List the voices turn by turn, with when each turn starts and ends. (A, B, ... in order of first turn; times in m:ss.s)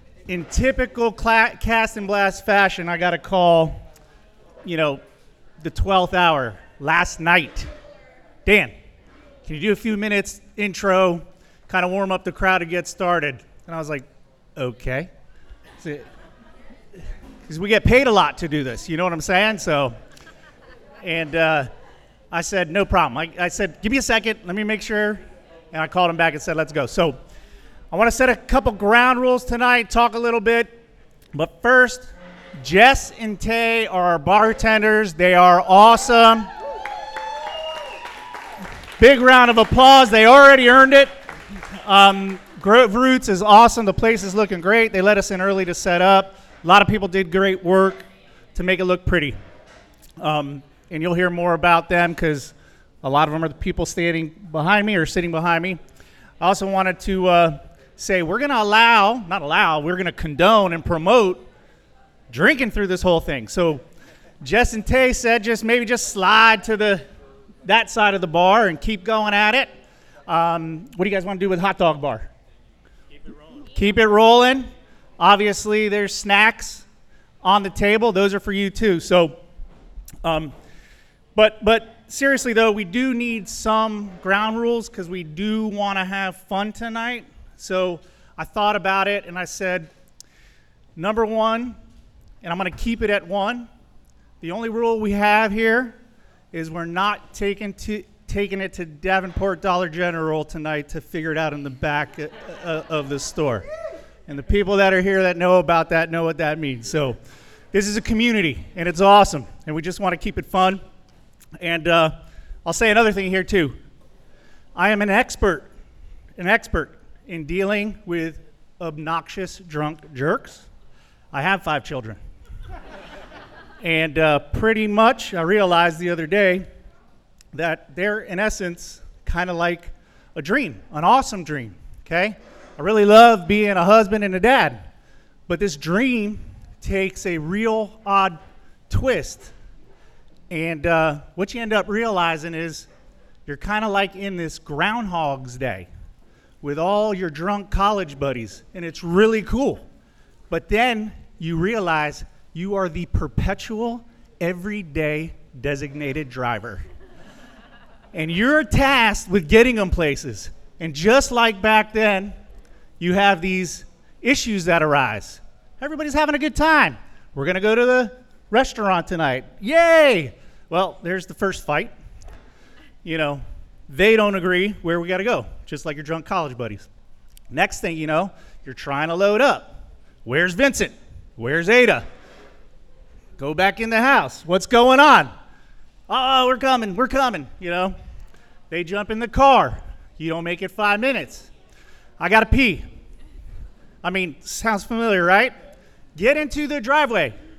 0:00.3-0:03.8 A
0:04.6-0:05.0 A
0:05.6-0:07.7 A
0:08.5-0:08.7 A
0:09.5-0:15.1 A
0:15.8-0:16.1 A
0:17.5-0:20.0 A
0:21.0-0:21.7 A
0:22.3-0:27.2 A
0:27.9-0:30.8 A
0:31.3-0:32.1 A
0:32.6-0:36.5 A
0:39.0-0:41.1 A
0:41.8-0:49.4 A
0:50.2-0:55.8 A
0:56.4-1:01.4 A
1:02.3-1:03.8 A
1:04.4-1:07.0 A
1:07.6-1:09.7 A
1:10.3-1:12.3 A
1:13.8-1:16.8 A
1:17.4-1:19.4 A
1:20.2-1:20.5 A
1:21.4-1:29.9 A
1:31.0-1:31.8 A
1:32.4-1:33.7 A
1:34.4-1:36.0 A
1:36.5-1:43.7 A
1:44.3-1:47.2 A
1:47.7-1:50.8 A
1:51.6-1:52.1 A
1:52.6-1:53.8 A
1:54.8-1:55.7 A
1:56.4-2:00.6 A
2:01.3-2:02.2 A
2:03.8-2:06.7 A
2:07.5-2:14.8 A
2:15.5-2:18.4 A
2:18.9-2:19.5 A
2:20.5-2:22.9 A
2:23.5-2:25.9 A
2:26.6-2:29.8 A
2:30.5-2:36.8 A
2:38.1-2:42.4 A
2:43.0-2:51.9 A
2:53.0-2:56.9 A
2:57.5-2:59.7 A
3:00.2-3:02.1 A
3:03.4-3:05.3 A
3:06.1-3:08.0 A
3:08.7-3:11.5 A
3:12.2-3:12.8 A
3:14.0-3:15.5 A
3:16.2-3:17.4 A